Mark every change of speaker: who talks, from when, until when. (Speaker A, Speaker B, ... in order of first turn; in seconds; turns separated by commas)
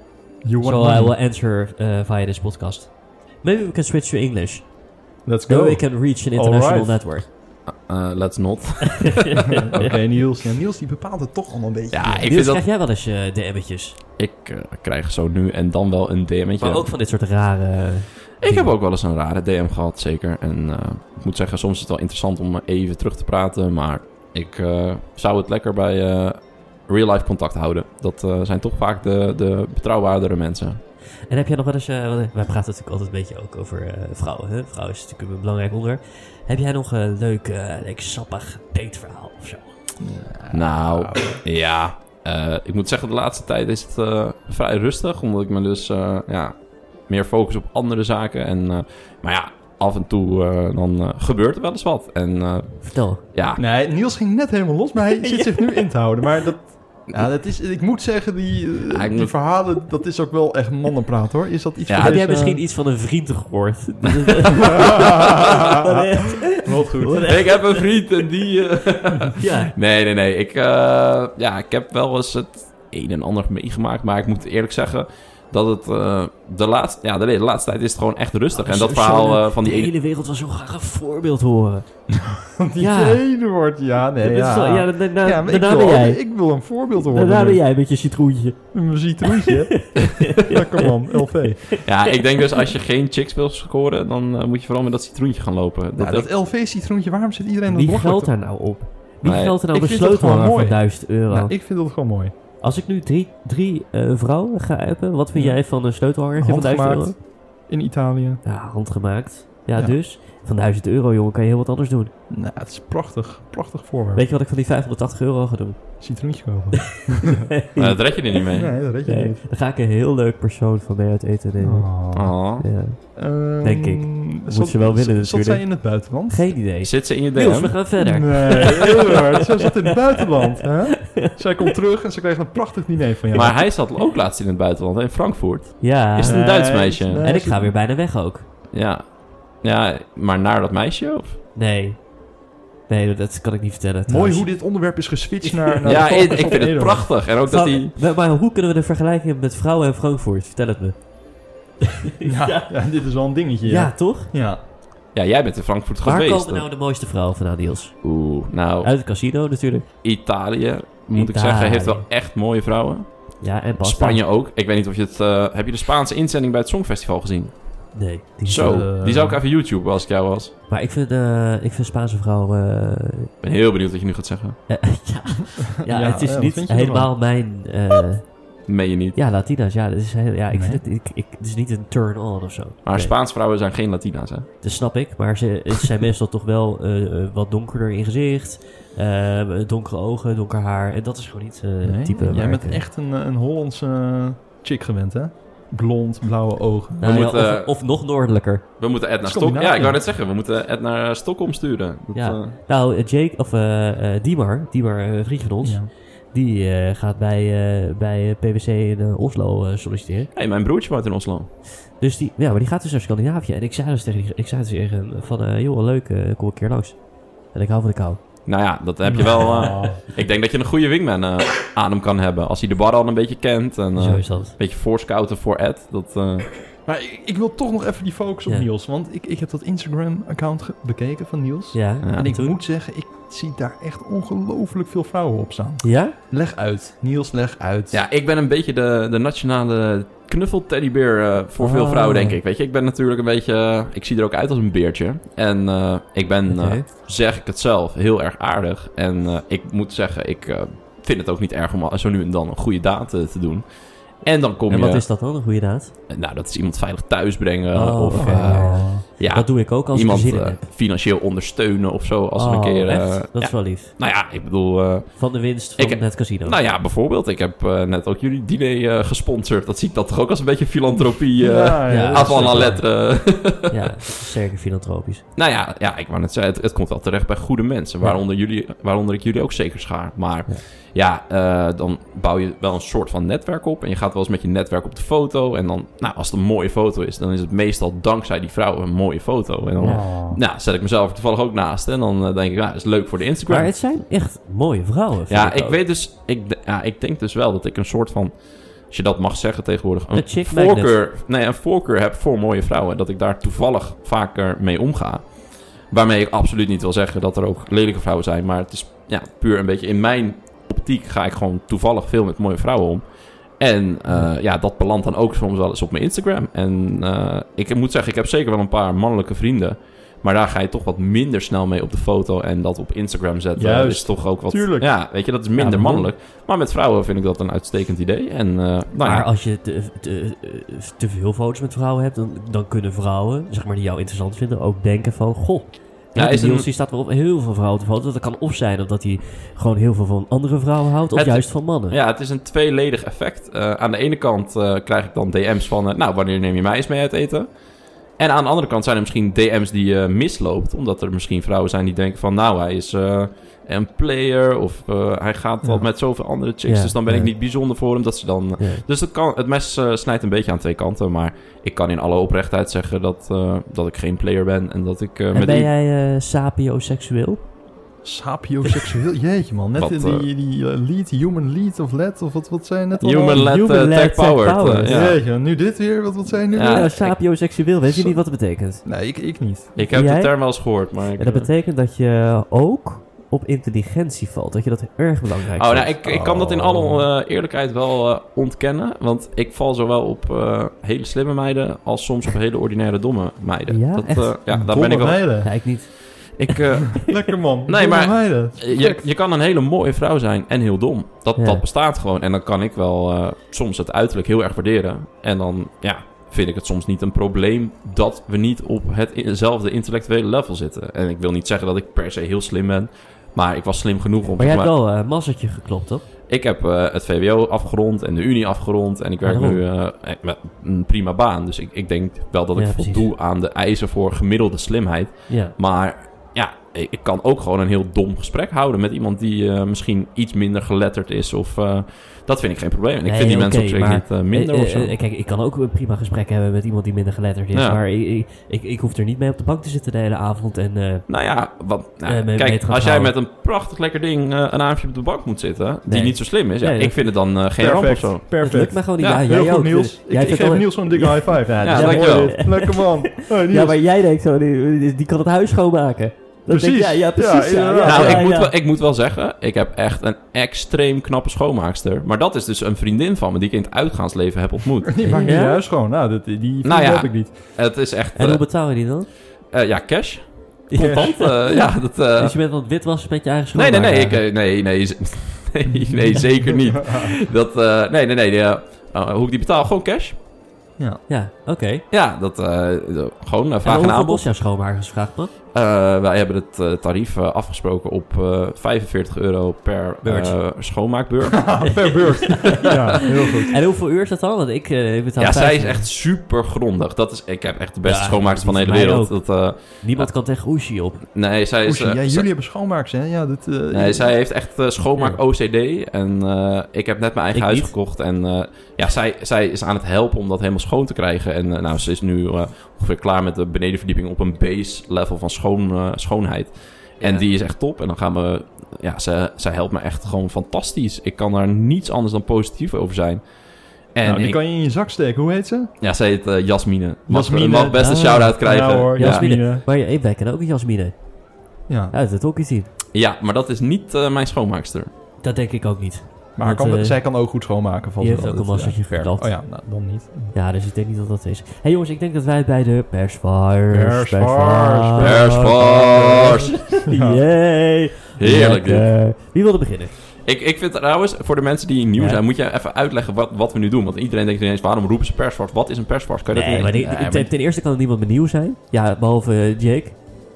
Speaker A: 0.4-1.1, Speaker B: 0.6-4.7, Speaker A: 5.2-7.0, Speaker B: 5.5-7.3, Speaker C: 7.7-9.4, Speaker B: 9.0-10.0, Speaker A: 9.5-12.3, Speaker C: 11.9-12.6, Speaker B: 12.2-14.0, Speaker C: 14.2-16.9, Speaker B: 16.6-18.7, Speaker C: 18.4-30.8, Speaker B: 31.3-39.7, Speaker A: 40.0-41.4, Speaker C: 40.5-53.6, Speaker B: 52.8-53.2, Speaker A: 53.5-62.6, Speaker B: 55.2-55.9, Speaker C: 58.9-59.4, Speaker C: 61.9-62.2, Speaker B: 62.0-67.9, Speaker A: 64.6-67.3, Speaker C: 67.2-79.9, Speaker B: 69.3-69.7, Speaker B: 78.5-81.9, Speaker A: 82.2-87.6, Speaker B: 82.8-83.2, Speaker B: 84.2-86.2, Speaker B: 87.0-88.7, Speaker A: 88.7-91.7, Speaker B: 89.2-92.6, Speaker C: 91.8-96.3, Speaker A: 96.0-98.3, Speaker B: 97.7-101.5, Speaker A: 99.2-102.3, Speaker C: 99.2-99.6, Speaker B: 102.6-107.2, Speaker A: 105.3-105.6, Speaker A: 106.3-108.4, Speaker B: 108.4-112.1, Speaker A: 112.3-114.2, Speaker B: 114.1-116.0, Speaker A: 116.0-117.5, Speaker B: 116.8-118.3, Speaker C: 117.8-118.7, Speaker A: 118.5-119.4, Speaker B: 119.0-121.9, Speaker A: 121.6-122.4, Speaker C: 122.1-122.7, Speaker B: 122.6-131.7, Speaker A: 123.1-126.5, Speaker C: 126.8-127.8, Speaker A: 128.0-133.6, Speaker C: 133.3-137.3, Speaker B: 135.8-138.4, Speaker A: 136.2-137.7, Speaker C: 138.7-141.4, Speaker B: 141.5-142.1, Speaker B: 142.9-144.9, Speaker A: 144.1-147.1, Speaker B: 145.4-146.2, Speaker C: 145.8-147.9, Speaker B: 147.4-151.0, Speaker B: 151.8-152.8, Speaker A: 152.2-154.6, Speaker B: 153.6-154.3, Speaker C: 155.1-156.7, Speaker B: 156.0-158.0, Speaker C: 158.0-158.9, Speaker B: 158.8-159.9, Speaker C: 160.0-167.7, Speaker B: 161.1-162.0, Speaker B: 163.4-164.2, Speaker B: 167.9-168.9, Speaker C: 168.4-170.5, Speaker A: 168.6-169.4, Speaker B: 170.7-173.3, Speaker C: 173.4-174.6, Speaker B: 174.7-178.3, Speaker A: 175.8-177.1, Speaker C: 178.7-179.2, Speaker B: 179.1-183.1, Speaker A: 180.5-180.8, Speaker C: 182.8-184.5, Speaker B: 184.6-192.8, Speaker A: 191.8-197.1, Speaker B: 197.0-198.6, Speaker C: 197.0-197.8, Speaker C: 198.8-202.5, Speaker A: 199.2-200.0, Speaker B: 202.1-210.3, Speaker A: 205.6-205.9, Speaker C: 210.3-211.5, Speaker B: 211.9-217.0, Speaker B: 217.5-218.2, Speaker C: 218.4-226.5, Speaker A: 219.0-220.0, Speaker B: 219.2-219.9, Speaker B: 223.9-224.6, Speaker A: 226.8-238.0, Speaker B: 231.7-232.5, Speaker C: 232.0-232.3, Speaker B: 235.8-236.2, Speaker C: 237.9-253.6, Speaker B: 241.6-242.4, Speaker B: 246.5-246.8, Speaker C: 254.2-255.1, Speaker B: 254.7-255.9, Speaker C: 256.1-274.0, Speaker B: 257.7-260.6, Speaker A: 258.1-259.0, Speaker B: 262.3-263.9, Speaker B: 265.2-266.6, Speaker A: 271.4-272.8, Speaker B: 271.9-275.2, Speaker C: 275.4-293.7, Speaker B: 289.8-290.1, Speaker A: 289.8-290.4, Speaker B: 293.5-295.8, Speaker C: 295.3-329.3, Speaker B: 300.1-300.9, Speaker A: 323.5-325.0, Speaker B: 325.6-326.1, Speaker B: 329.0-341.9, Speaker C: 336.1-336.7, Speaker C: 341.1-347.5, Speaker C: 348.2-365.7, Speaker B: 356.6-357.3, Speaker B: 358.6-358.8, Speaker B: 365.3-367.4, Speaker A: 368.0-373.5, Speaker C: 369.8-370.3, Speaker C: 373.0-375.2, Speaker B: 373.3-375.0, Speaker A: 374.8-376.9, Speaker C: 376.5-377.4, Speaker B: 376.6-378.8, Speaker A: 377.9-378.2, Speaker A: 378.8-379.7, Speaker C: 379.8-381.5, Speaker B: 379.9-385.9, Speaker C: 385.6-395.5, Speaker A: 386.0-387.0, Speaker B: 393.7-394.4, Speaker A: 394.5-395.5, Speaker B: 395.4-396.6, Speaker C: 396.3-414.7, Speaker A: 397.0-399.1, Speaker B: 401.4-401.6, Speaker B: 414.4-416.0, Speaker C: 416.3-435.0, Speaker B: 419.2-419.6, Speaker B: 422.5-423.1, Speaker B: 425.3-425.5, Speaker B: 433.0-441.1, Speaker C: 437.5-437.8, Speaker C: 441.1-448.4, Speaker B: 442.1-443.1, Speaker B: 445.9-447.0, Speaker A: 447.6-453.8, Speaker B: 448.4-458.5, Speaker C: 449.0-449.2, Speaker C: 451.6-452.5, Speaker A: 456.5-458.3, Speaker C: 457.8-465.2, Speaker A: 464.9-467.3, Speaker B: 465.0-465.6, Speaker C: 466.6-468.9, Speaker B: 468.1-469.1, Speaker C: 469.5-472.4, Speaker B: 470.7-474.2, Speaker A: 470.8-471.1, Speaker C: 473.5-480.2, Speaker A: 475.7-477.1, Speaker A: 480.8-481.0, Speaker B: 481.1-481.8, Speaker C: 481.9-484.2, Speaker B: 483.6-485.3, Speaker C: 485.5-493.3, Speaker B: 490.0-490.4, Speaker A: 491.3-493.6, Speaker B: 491.7-495.9, Speaker C: 495.2-500.1, Speaker B: 497.8-501.0, Speaker C: 501.1-502.3, Speaker A: 501.6-504.1, Speaker C: 503.7-523.3, Speaker B: 507.3-507.7, Speaker B: 517.0-517.2, Speaker C: 523.9-524.4, Speaker A: 524.0-525.7, Speaker C: 525.8-529.3, Speaker A: 527.1-529.6, Speaker B: 529.0-531.0, Speaker A: 531.7-531.9, Speaker B: 531.9-532.7, Speaker C: 532.9-534.9, Speaker B: 535.2-537.0, Speaker A: 536.4-540.3, Speaker B: 538.0-539.3, Speaker B: 540.3-545.9, Speaker A: 543.7-547.2, Speaker C: 545.0-546.6, Speaker B: 546.7-549.9, Speaker C: 548.2-549.0, Speaker C: 550.2-557.3, Speaker B: 552.0-552.2, Speaker B: 556.3-560.0